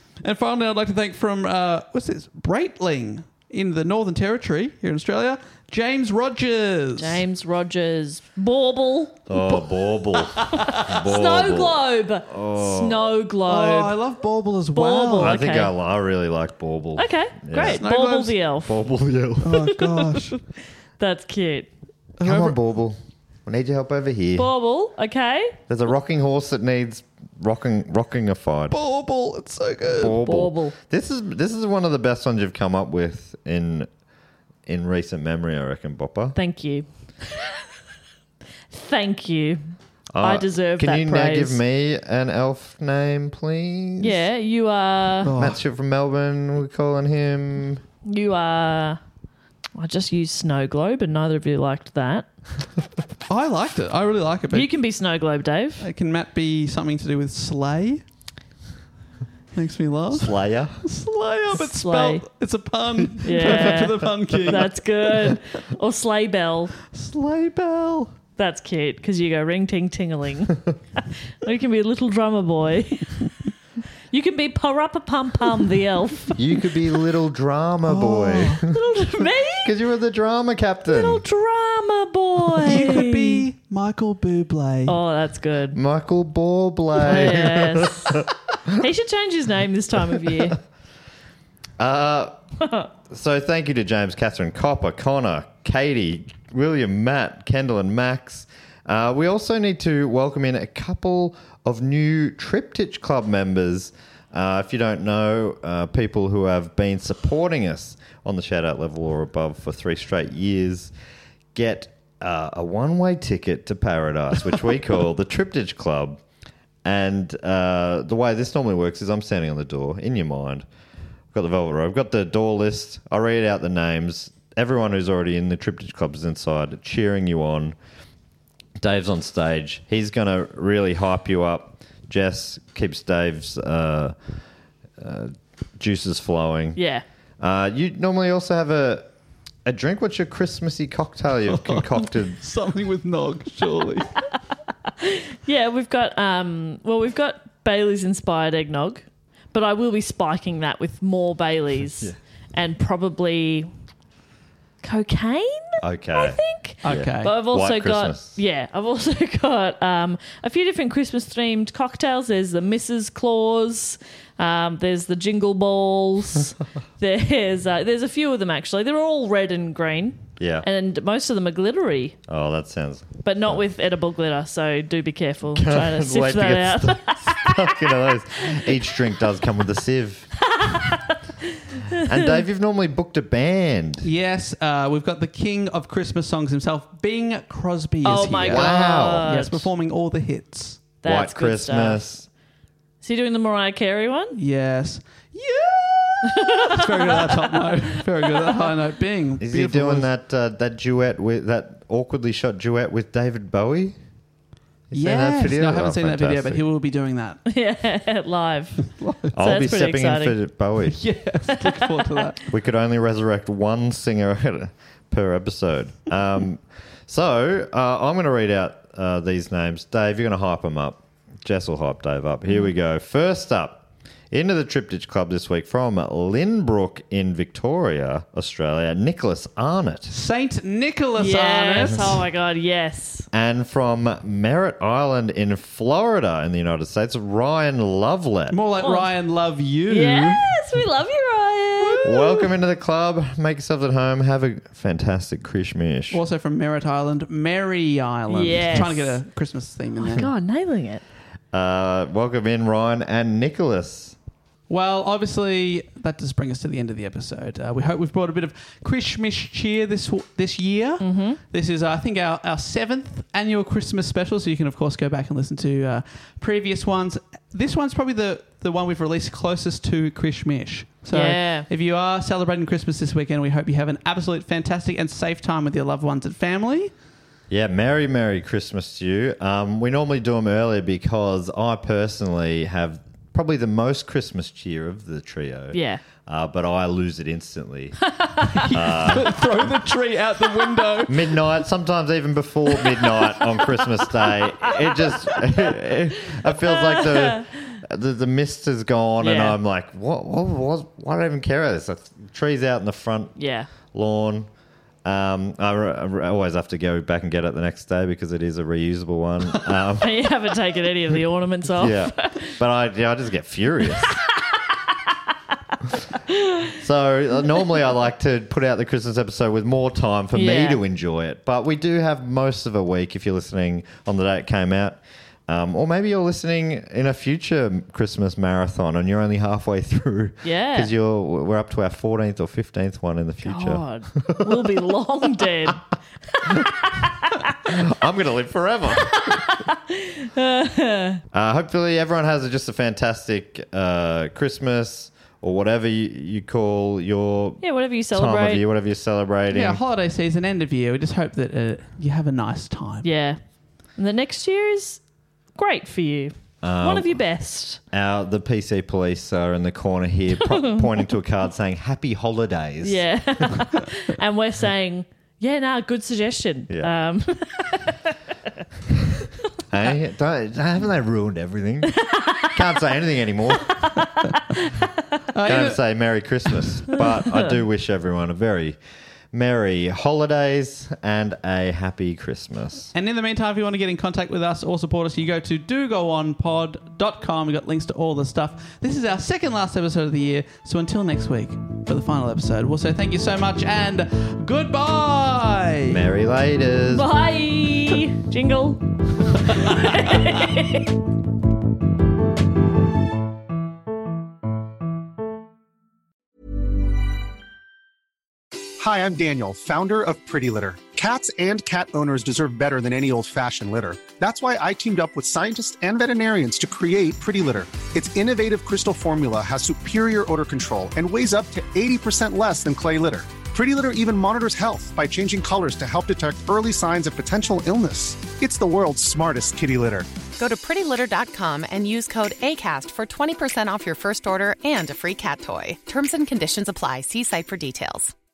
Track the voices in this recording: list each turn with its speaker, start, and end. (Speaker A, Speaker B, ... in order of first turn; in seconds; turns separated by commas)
Speaker A: 0.2-7.2, Speaker B: 7.0-9.6, Speaker C: 9.3-13.1, Speaker A: 10.4-10.8, Speaker B: 10.4-14.0, Speaker A: 13.4-15.4, Speaker B: 14.7-15.7, Speaker C: 15.2-17.8, Speaker B: 17.0-18.7, Speaker A: 17.6-18.4, Speaker C: 18.6-19.5, Speaker A: 19.4-20.4, Speaker B: 21.0-21.7, Speaker A: 22.2-22.6, Speaker C: 22.2-24.5, Speaker B: 24.4-25.6, Speaker C: 25.7-28.8, Speaker A: 28.7-30.2, Speaker C: 29.9-33.9, Speaker B: 30.1-30.8, Speaker C: 34.7-36.4, Speaker B: 36.4-36.9, Speaker B: 38.7-39.6, Speaker C: 40.1-44.2, Speaker B: 40.2-41.6, Speaker B: 44.0-45.3, Speaker A: 45.2-45.6, Speaker C: 45.3-47.8, Speaker B: 48.1-49.0, Speaker B: 49.8-52.3, Speaker A: 53.3-54.7, Speaker B: 54.5-55.9, Speaker A: 55.8-58.0, Speaker A: 59.5-65.4, Speaker C: 60.1-60.8, Speaker B: 61.5-62.2, Speaker B: 63.2-66.7, Speaker A: 66.9-68.1, Speaker B: 68.4-70.6, Speaker B: 71.4-73.2, Speaker B: 74.1-76.5, Speaker C: 76.4-78.7, Speaker A: 77.9-78.6, Speaker B: 78.6-79.7, Speaker C: 79.6-81.2, Speaker B: 80.9-83.4, Speaker A: 82.6-85.0, Speaker B: 84.9-85.8, Speaker C: 85.8-88.3, Speaker B: 87.0-90.6, Speaker C: 91.8-92.4, Speaker C: 93.1-110.9, Speaker C: 111.5-116.2, Speaker C: 116.8-120.7, Speaker C: 121.3-127.8, Speaker C: 128.8-134.2, Speaker C: 135.0-136.8, Speaker B: 136.8-137.0, Speaker C: 137.4-139.1, Speaker C: 139.7-142.4, Speaker A: 141.4-144.1, Speaker B: 145.0-153.7, Speaker B: 154.8-172.2, Speaker C: 155.8-158.4, Speaker A: 156.8-157.4, Speaker C: 170.4-170.7, Speaker C: 172.3-173.1, Speaker B: 173.2-177.9, Speaker C: 175.5-180.3, Speaker B: 180.6-181.0, Speaker B: 181.9-182.4, Speaker C: 182.1-184.1, Speaker A: 184.0-190.9, Speaker B: 188.0-189.7, Speaker C: 188.4-189.3, Speaker C: 191.0-192.3, Speaker B: 191.0-192.1, Speaker B: 193.0-194.4, Speaker A: 194.4-200.1, Speaker B: 196.6-198.7, Speaker C: 199.4-204.0, Speaker C: 204.9-206.6, Speaker A: 204.9-207.4, Speaker B: 207.4-210.4, Speaker A: 208.9-209.3, Speaker C: 209.3-211.0, Speaker A: 210.9-212.4, Speaker B: 211.7-212.0, Speaker C: 212.5-230.1, Speaker A: 230.1-232.3, Speaker B: 231.2-233.3, Speaker C: 233.3-238.6, Speaker A: 238.5-240.5, Speaker B: 238.8-239.1, Speaker B: 239.9-242.2, Speaker A: 241.8-242.5, Speaker C: 242.0-246.2, Speaker A: 246.1-250.3, Speaker B: 248.3-249.2, Speaker B: 250.0-251.0, Speaker C: 251.5-254.2, Speaker A: 254.7-276.9, Speaker B: 261.0-261.4, Speaker B: 271.1-271.7, Speaker C: 277.5-288.0, Speaker B: 285.7-286.0, Speaker A: 288.4-291.3, Speaker C: 288.7-289.4, Speaker C: 291.1-303.3, Speaker B: 293.6-295.6, Speaker B: 296.7-297.4, Speaker B: 299.2-299.6, Speaker B: 303.4-303.7, Speaker C: 303.9-304.5, Speaker C: 305.1-310.1, Speaker B: 310.0-312.6, Speaker C: 311.8-314.2, Speaker C: 316.8-334.4, Speaker B: 320.3-320.8, Speaker B: 330.4-330.9, Speaker B: 333.4-335.8, Speaker B: 336.4-337.1, Speaker C: 337.7-339.2, Speaker B: 339.2-341.2, Speaker C: 341.3-349.8, Speaker B: 347.6-348.6, Speaker A: 349.5-353.1, Speaker B: 353.0-353.4, Speaker B: 354.0-355.0, Speaker B: 355.6-357.8, Speaker C: 356.6-357.2, Speaker C: 357.9-363.0, Speaker B: 360.4-360.9, Speaker B: 362.8-368.1, Speaker C: 369.7-372.0, Speaker B: 372.1-372.5, Speaker C: 372.6-373.7, Speaker B: 373.8-374.7, Speaker A: 375.3-376.3, Speaker C: 375.4-378.8, Speaker C: 379.3-382.9, Speaker A: 382.9-396.0, Speaker C: 395.9-397.1, Speaker B: 396.9-398.8, Speaker B: 399.4-400.9, Speaker D: 408.8-430.1, Speaker E: 430.4-438.1